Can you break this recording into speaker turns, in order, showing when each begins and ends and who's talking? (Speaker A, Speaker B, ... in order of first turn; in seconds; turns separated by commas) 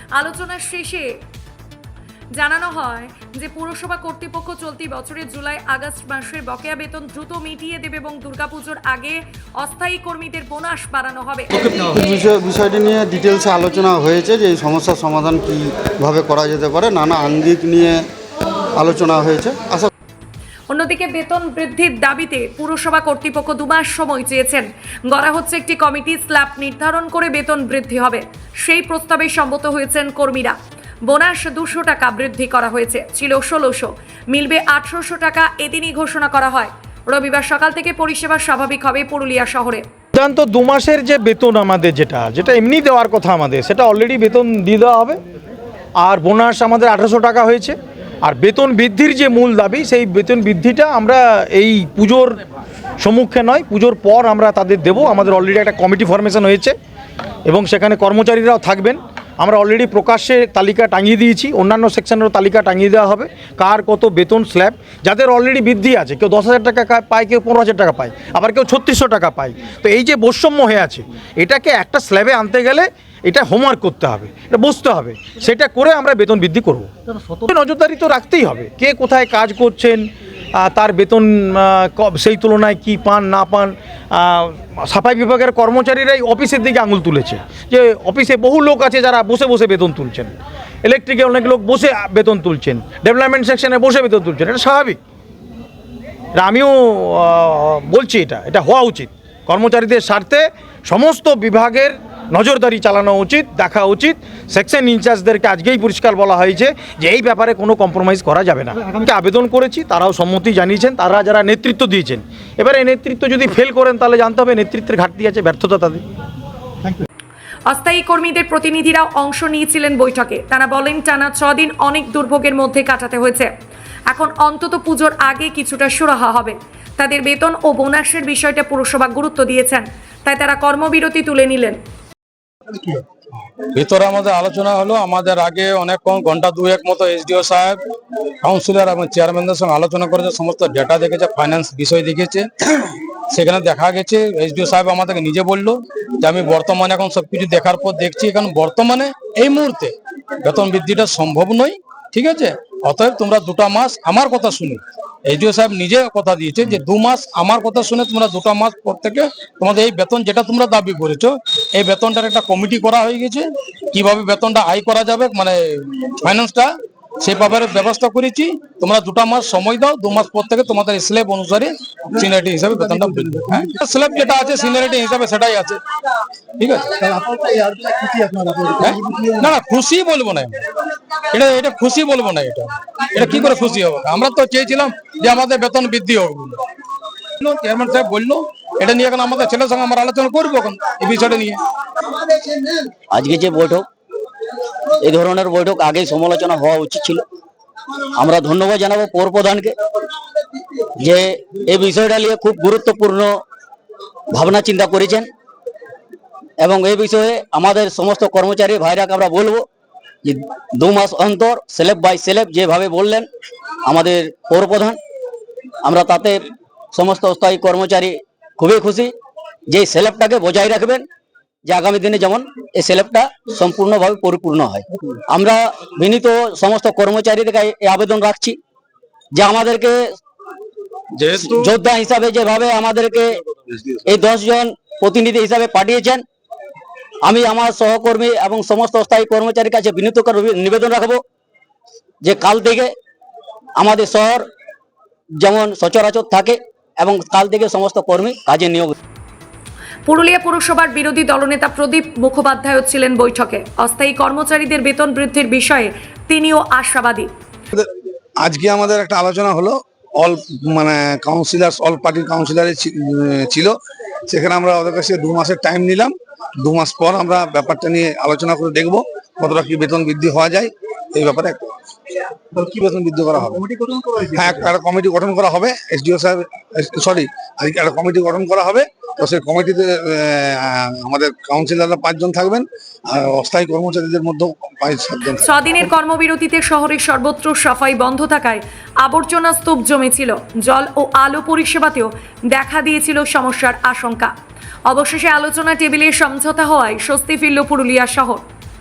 Speaker A: 0.1-1.1, Speaker A: 2.3-11.7, Speaker B: 11.6-18.1, Speaker B: 18.7-19.9, Speaker A: 20.7-39.8, Speaker C: 40.1-45.2, Speaker C: 46.0-52.4, Speaker C: 53.0-56.8, Speaker C: 57.5-95.0, Speaker C: 96.4-116.0, Speaker A: 117.7-123.5, Speaker A: 124.1-131.8, Speaker D: 132.7-133.0, Speaker D: 133.7-137.8, Speaker D: 138.4-175.8, Speaker D: 176.6-177.1, Speaker D: 178.7-180.6, Speaker D: 181.3-186.6, Speaker D: 187.4-191.6, Speaker E: 193.1-193.8, Speaker E: 195.0-197.2, Speaker E: 198.2-199.8, Speaker E: 201.0-203.3, Speaker E: 204.3-205.3, Speaker E: 206.6-209.7, Speaker E: 210.2-213.3, Speaker E: 213.8-215.0, Speaker E: 215.8-219.1, Speaker E: 219.7-221.1, Speaker E: 221.7-228.6, Speaker E: 229.3-230.1, Speaker D: 231.2-231.7, Speaker E: 231.6-233.4, Speaker E: 234.1-236.2, Speaker E: 237.2-241.2, Speaker E: 242.2-242.9, Speaker E: 243.8-244.5, Speaker E: 245.4-248.9, Speaker A: 250.1-257.3, Speaker F: 257.7-263.8, Speaker F: 264.3-271.8, Speaker F: 272.5-285.5, Speaker A: 285.4-294.3, Speaker A: 294.9-298.4